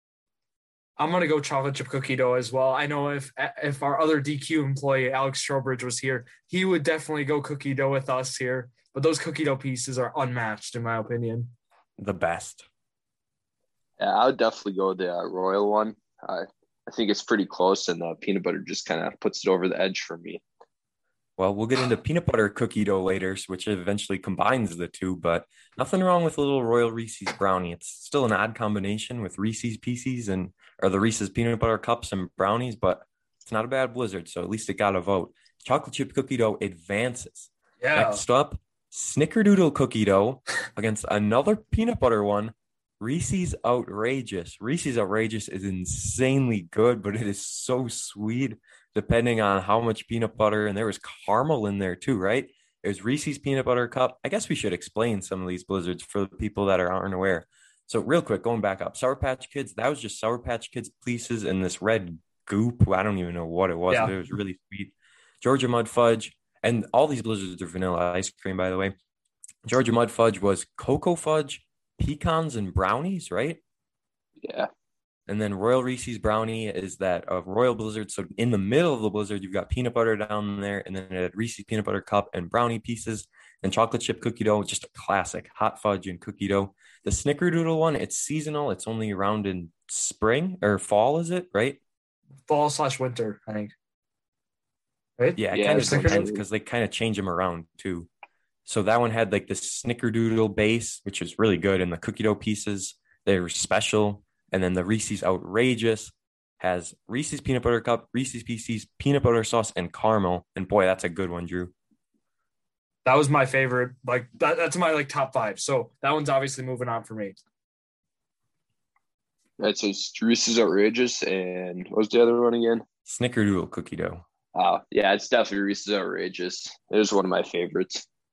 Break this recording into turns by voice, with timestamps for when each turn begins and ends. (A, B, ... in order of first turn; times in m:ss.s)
0:01.0-0:11.5 A
0:12.0-0:12.6 B
0:14.0-0:20.4 C
0:21.4-1:08.9 B
0:37.8-0:38.2 A
1:09.6-1:13.6 B
1:14.4-1:14.7 C
1:15.3-1:31.8 B
1:32.5-1:33.7 A
1:35.2-1:36.2 A
1:35.4-1:38.1 B
1:35.5-1:36.4 C
1:38.6-1:51.7 B
1:53.0-1:57.4 A
1:59.6-2:02.8 C
2:03.0-2:04.2 B
2:04.5-2:08.0 C